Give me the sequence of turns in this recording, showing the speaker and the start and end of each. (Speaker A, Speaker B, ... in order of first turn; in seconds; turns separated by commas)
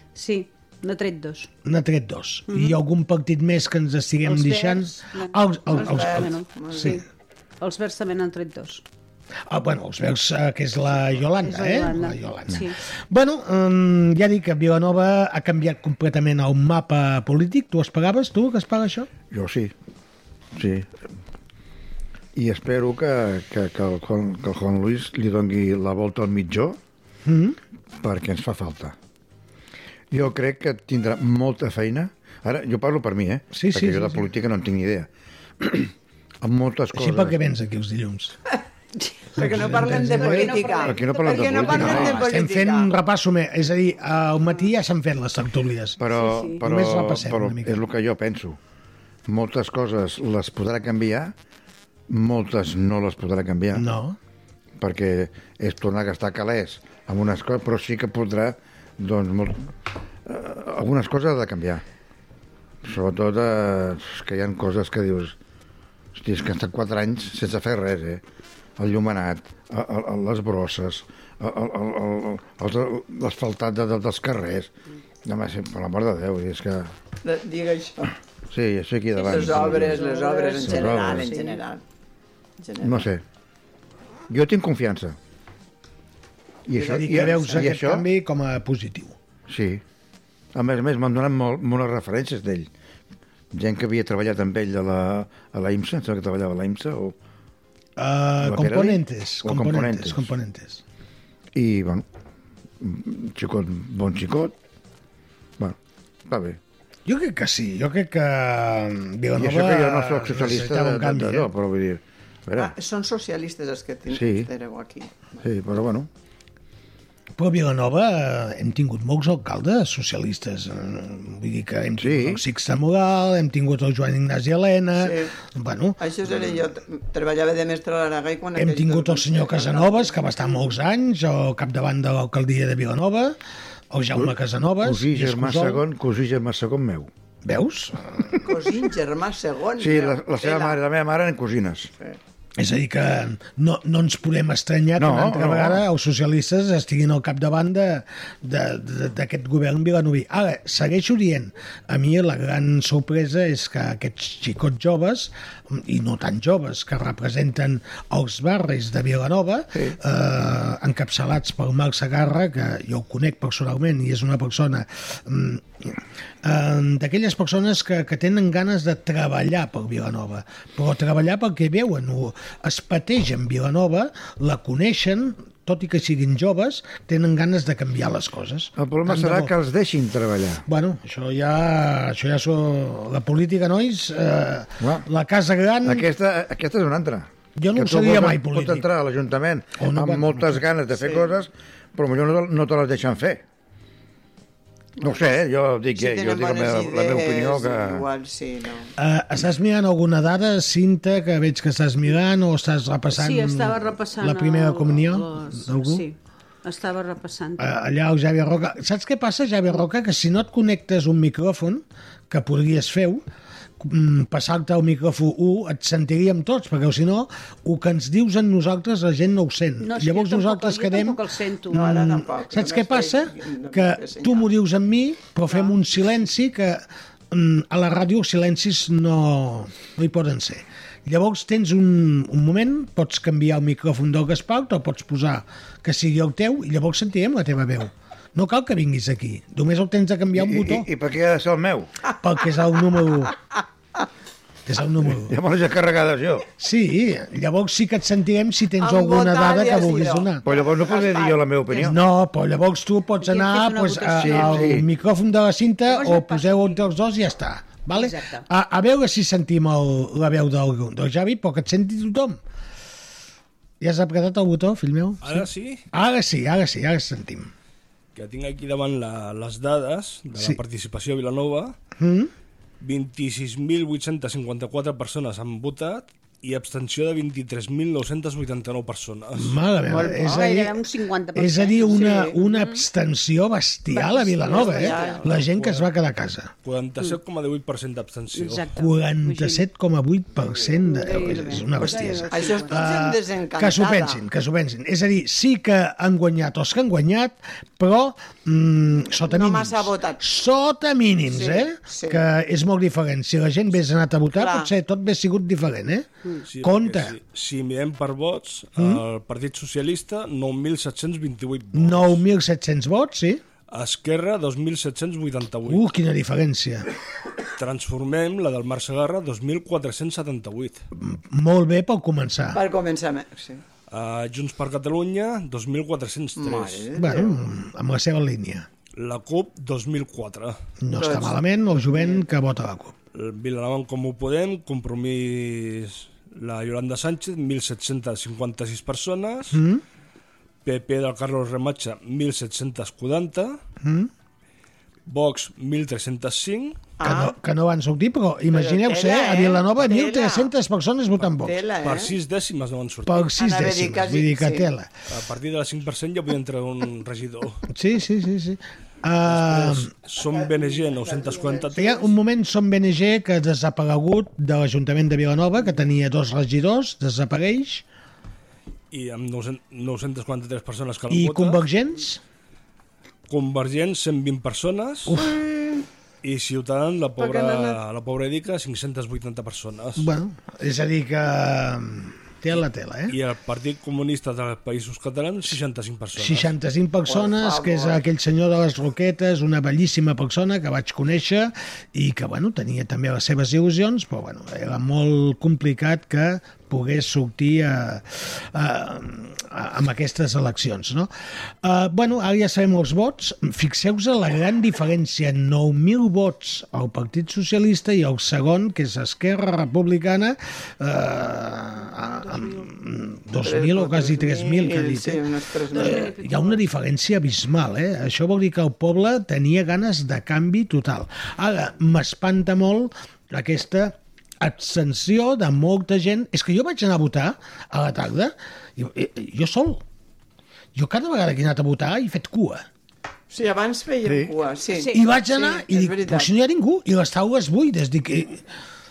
Speaker A: 0.2-1.5, Speaker B: 1.6-7.0, Speaker A: 2.5-2.8, Speaker A: 4.2-7.0, Speaker C: 5.7-7.0, Speaker A: 7.6-8.8, Speaker B: 9.5-19.1, Speaker A: 11.4-12.8, Speaker D: 19.3-19.7, Speaker D: 20.5-20.9, Speaker D: 22.4-26.8, Speaker B: 27.2-27.6, Speaker D: 28.0-28.9, Speaker D: 30.1-35.1, Speaker B: 33.5-34.3, Speaker D: 35.6-35.9, Speaker D: 36.4-37.4, Speaker B: 36.9-38.4, Speaker C: 39.4-42.9, Speaker B: 39.4-40.6, Speaker A: 40.0-42.1, Speaker D: 40.8-42.2, Speaker B: 41.7-46.0, Speaker D: 46.0-48.6, Speaker A: 46.1-46.6, Speaker B: 46.6-47.8, Speaker D: 49.3-51.3, Speaker D: 52.1-53.9, Speaker B: 53.7-54.2, Speaker D: 54.8-59.7, Speaker D: 60.3-61.8, Speaker D: 62.8-65.4, Speaker D: 66.2-68.2, Speaker D: 68.8-74.7, Speaker D: 75.2-76.9, Speaker C: 77.2-78.1, Speaker D: 78.5-80.1, Speaker A: 79.2-81.6, Speaker C: 79.2-81.8, Speaker D: 80.6-81.3, Speaker C: 82.6-83.1, Speaker D: 82.8-83.2, Speaker D: 84.3-85.2, Speaker D: 86.7-88.0, Speaker C: 86.7-87.7, Speaker B: 86.8-89.2, Speaker D: 89.5-89.8, Speaker D: 90.5-92.7, Speaker D: 93.5-97.2, Speaker B: 98.0-100.8, Speaker D: 98.4-100.3, Speaker D: 101.5-102.0, Speaker D: 102.8-104.5, Speaker D: 105.6-106.6, Speaker B: 107.1-111.5, Speaker D: 109.4-112.7, Speaker C: 112.6-115.4, Speaker D: 114.1-114.5, Speaker D: 115.4-116.1, Speaker B: 117.4-126.0, Speaker D: 122.0-122.4, Speaker C: 125.0-125.3, Speaker C: 126.0-130.6, Speaker B: 128.6-133.4, Speaker B: 133.9-135.8, Speaker D: 134.2-137.1, Speaker B: 137.4-138.4, Speaker C: 138.4-140.8, Speaker D: 139.8-141.9, Speaker B: 142.6-179.5, Speaker D: 145.0-145.8, Speaker D: 178.8-180.7, Speaker B: 180.7-186.1, Speaker D: 184.8-185.1, Speaker D: 185.8-193.4, Speaker B: 187.6-188.9, Speaker B: 189.8-190.7, Speaker C: 191.0-191.3, Speaker C: 195.0-195.4, Speaker D: 195.0-198.1, Speaker C: 196.0-198.9, Speaker B: 199.0-206.1, Speaker A: 203.1-207.7, Speaker B: 207.6-213.2, Speaker B: 213.8-240.9, Speaker A: 219.8-221.9, Speaker C: 221.7-224.5, Speaker D: 240.3-241.9, Speaker B: 242.2-243.3, Speaker B: 244.7-245.3, Speaker D: 245.1-246.5, Speaker B: 246.6-250.4, Speaker C: 248.8-251.4, Speaker D: 250.4-252.0, Speaker B: 251.8-262.4, Speaker A: 253.2-254.8, Speaker D: 254.2-254.8, Speaker A: 255.9-256.9, Speaker A: 257.9-258.5, Speaker B: 263.8-267.5, Speaker E: 265.2-265.9, Speaker E: 268.1-271.8, Speaker B: 270.4-270.6, Speaker B: 272.0-272.3, Speaker E: 272.8-279.5, Speaker B: 279.4-280.8, Speaker A: 279.9-282.8, Speaker B: 281.3-286.5, Speaker C: 281.9-282.4, Speaker A: 283.9-285.3, Speaker C: 284.5-285.2, Speaker E: 285.4-285.9, Speaker E: 286.6-288.7, Speaker A: 288.3-289.7, Speaker B: 288.8-306.1, Speaker A: 290.8-292.9, Speaker C: 291.8-294.2, Speaker C: 299.3-300.2, Speaker C: 301.3-302.2, Speaker C: 304.3-304.7, Speaker E: 306.5-312.2, Speaker B: 306.6-307.2, Speaker B: 308.8-309.0, Speaker B: 311.7-313.4, Speaker E: 313.7-315.8, Speaker B: 315.7-316.9, Speaker E: 317.6-320.8, Speaker B: 321.0-322.6, Speaker C: 322.5-323.6, Speaker E: 323.9-326.9, Speaker C: 326.4-327.4, Speaker B: 326.9-328.7, Speaker E: 329.0-330.6, Speaker B: 330.8-332.9, Speaker C: 331.0-331.4, Speaker C: 331.9-332.2, Speaker E: 333.1-339.6, Speaker B: 339.5-339.8, Speaker E: 340.6-343.6, Speaker B: 343.8-344.1, Speaker E: 345.1-346.9, Speaker C: 347.0-347.4, Speaker B: 347.0-351.6, Speaker C: 348.5-350.5, Speaker C: 351.4-352.1, Speaker E: 351.8-353.3, Speaker B: 353.1-354.9, Speaker C: 353.4-354.7, Speaker E: 355.1-357.6, Speaker B: 357.7-359.9, Speaker E: 359.3-362.0, Speaker B: 361.8-367.9, Speaker E: 368.9-371.6, Speaker B: 371.1-372.2, Speaker E: 373.3-375.2, Speaker B: 375.1-375.4, Speaker C: 375.4-375.8, Speaker E: 376.2-380.1, Speaker C: 377.2-377.8, Speaker B: 380.0-383.2, Speaker E: 383.1-386.5, Speaker B: 386.2-401.1, Speaker C: 387.1-388.0, Speaker B: 401.6-429.8, Speaker A: 412.2-412.5, Speaker C: 413.4-416.1, Speaker A: 415.7-416.6, Speaker B: 430.8-432.6, Speaker C: 433.3-436.3, Speaker D: 434.1-434.3, Speaker A: 434.8-435.0, Speaker B: 434.9-438.4